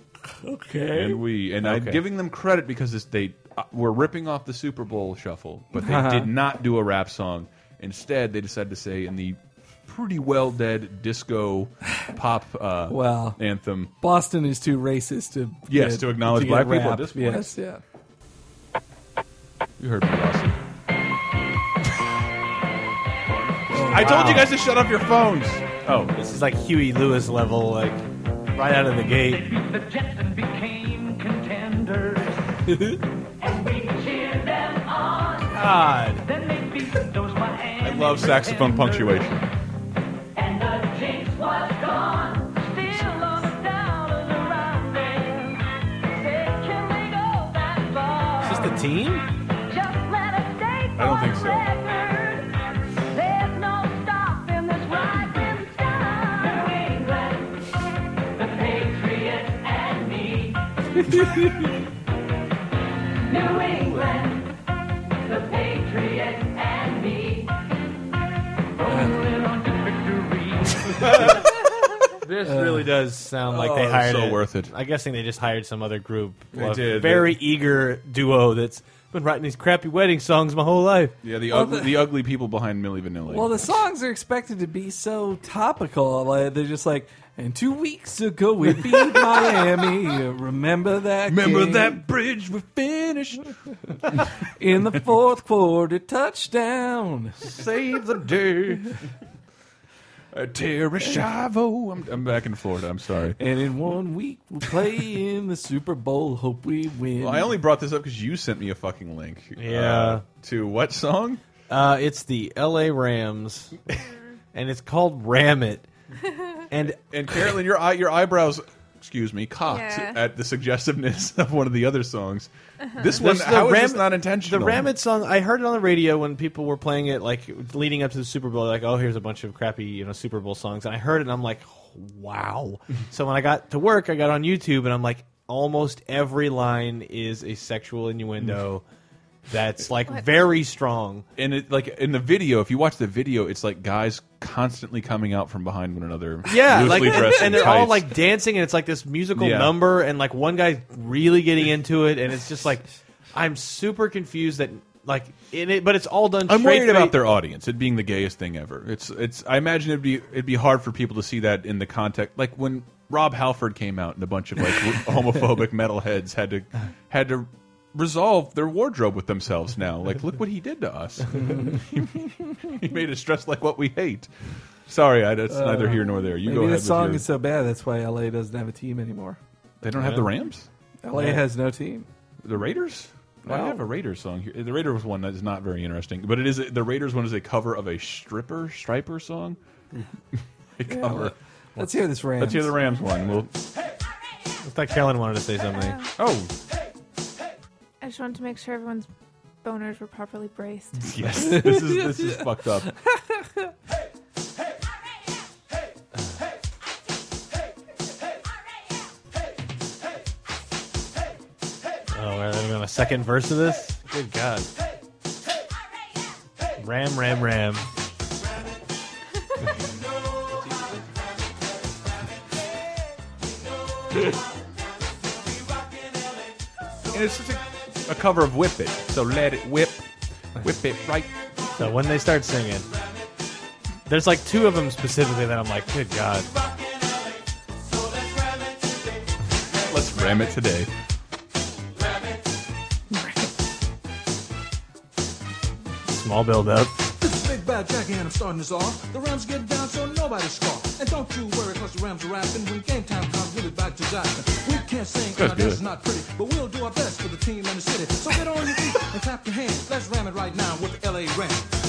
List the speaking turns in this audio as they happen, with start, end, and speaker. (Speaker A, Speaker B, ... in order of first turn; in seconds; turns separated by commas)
Speaker A: 0.4-1.3, Speaker B: 0.9-13.9, Speaker C: 1.6-2.0, Speaker A: 5.8-6.3, Speaker A: 12.9-13.4, Speaker A: 14.0-17.8, Speaker B: 15.7-17.5, Speaker B: 19.8-20.6, Speaker A: 23.7-24.3, Speaker B: 23.8-26.1, Speaker C: 23.9-24.6, Speaker C: 26.1-29.5, Speaker D: 29.3-32.5, Speaker D: 33.4-35.7, Speaker C: 35.5-36.3, Speaker D: 36.2-39.2, Speaker B: 37.8-39.4, Speaker D: 40.4-48.9, Speaker C: 48.4-49.3, Speaker D: 49.7-52.5, Speaker B: 51.0-51.7, Speaker D: 53.1-57.8, Speaker D: 58.4-60.6, Speaker A: 61.1-61.4, Speaker D: 63.3-64.5, Speaker D: 65.2-67.5, Speaker D: 68.8-70.8, Speaker A: 68.9-69.2, Speaker C: 71.0-71.4, Speaker C: 72.2-81.2, Speaker A: 72.4-72.9, Speaker B: 73.4-74.7, Speaker B: 76.5-77.4, Speaker B: 81.2-83.7, Speaker A: 81.5-82.1, Speaker A: 83.3-92.0, Speaker B: 91.3-93.5, Speaker A: 94.6-97.6, Speaker C: 97.5-98.8, Speaker B: 100.3-103.4, Speaker A: 103.4-107.6, Speaker B: 107.2-111.4, Speaker C: 109.6-110.2, Speaker C: 111.7-113.8, Speaker C: 114.5-115.9, Speaker C: 116.7-117.0, Speaker B: 116.8-124.9, Speaker E: 119.7-120.2, Speaker C: 123.1-138.8, Speaker C: 139.5-141.3, Speaker B: 141.4-148.2, Speaker C: 146.4-157.2, Speaker A: 146.9-147.6, Speaker B: 149.3-149.8, Speaker B: 156.5-174.3, Speaker A: 171.3-171.8, Speaker B: 174.9-177.2, Speaker A: 175.5-179.4, Speaker B: 179.8-180.7, Speaker C: 180.0-180.3, Speaker A: 181.0-182.1, Speaker C: 181.2-181.4, Speaker B: 182.4-189.6, Speaker A: 183.4-183.8, Speaker B: 190.3-191.3, Speaker A: 190.9-192.8, Speaker B: 192.4-193.5, Speaker C: 194.6-196.0, Speaker E: 195.7-196.1, Speaker B: 196.2-196.5, Speaker E: 198.0-199.1, Speaker E: 199.6-201.2, Speaker B: 201.0-202.9, Speaker A: 201.4-203.7, Speaker C: 212.1-214.7, Speaker C: 216.8-217.9, Speaker B: 227.1-230.1, Speaker B: 230.6-231.4, Speaker C: 231.8-232.9, Speaker C: 234.1-236.5, Speaker B: 239.8-240.9, Speaker A: 243.1-243.5, Speaker C: 246.1-247.1, Speaker F: 247.2-258.3, Speaker B: 255.3-255.8, Speaker F: 259.2-261.6